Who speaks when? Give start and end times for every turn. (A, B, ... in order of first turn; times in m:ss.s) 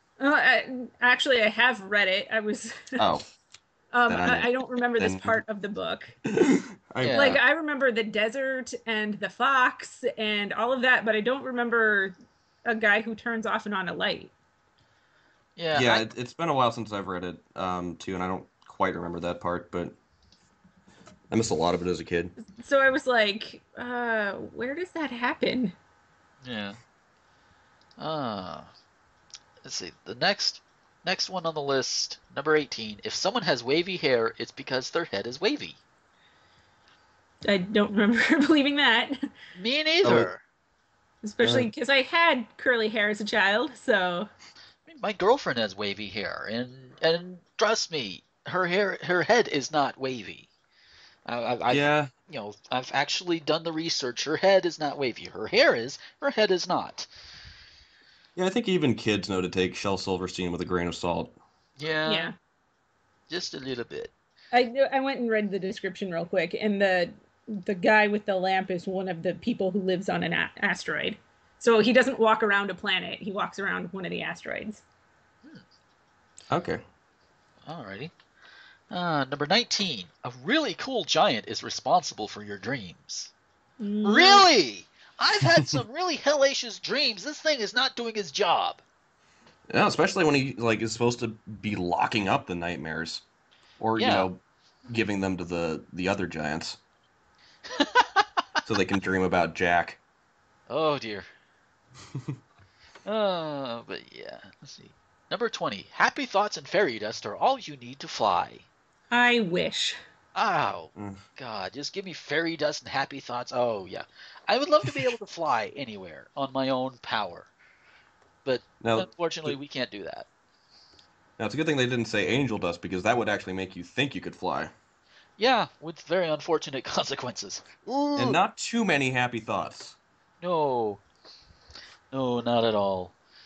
0:00.2-0:03.1 A
0:03.0-0:03.2 B
0:03.9-0:06.2 A
0:04.1-0:05.4 B
0:06.3-0:07.4 B
0:07.0-0:07.4 C
0:07.1-0:14.3 A
0:15.6-0:16.1 C
0:15.7-0:20.0 B
0:21.3-0:22.4 B
0:22.4-0:25.8 A
0:26.4-0:26.8 C
0:28.0-0:28.7 C
0:29.6-0:35.8 C
0:37.4-0:39.3 A
0:39.6-0:40.4 C
0:40.0-0:40.3 B
0:41.2-0:44.3 A
0:41.4-0:41.7 B
0:44.9-0:50.5 C
0:51.3-0:57.1 C
0:51.7-0:52.1 B
0:58.4-1:01.4 B
1:01.8-1:02.3 C
1:02.1-1:02.3 A
1:03.3-1:04.1 C
1:04.5-1:14.8 A
1:16.5-1:16.8 B
1:17.7-1:18.1 C
1:18.9-1:23.3 C
1:23.8-1:24.4 A
1:24.0-1:28.8 C
1:29.7-1:33.2 B
1:33.8-1:36.8 B
1:34.0-1:34.3 C
1:37.7-1:38.2 C
1:38.7-1:40.0 B
1:40.7-1:41.3 C
1:43.0-1:48.7 C
1:49.1-1:50.0 A
1:50.4-1:57.5 C
1:51.0-1:51.2 B
1:58.4-2:00.3 C
1:58.8-1:59.6 B
2:01.4-2:04.7 B
2:05.4-2:08.4 C
2:08.2-2:10.0 B
2:10.4-2:11.0 C
2:12.1-2:13.1 C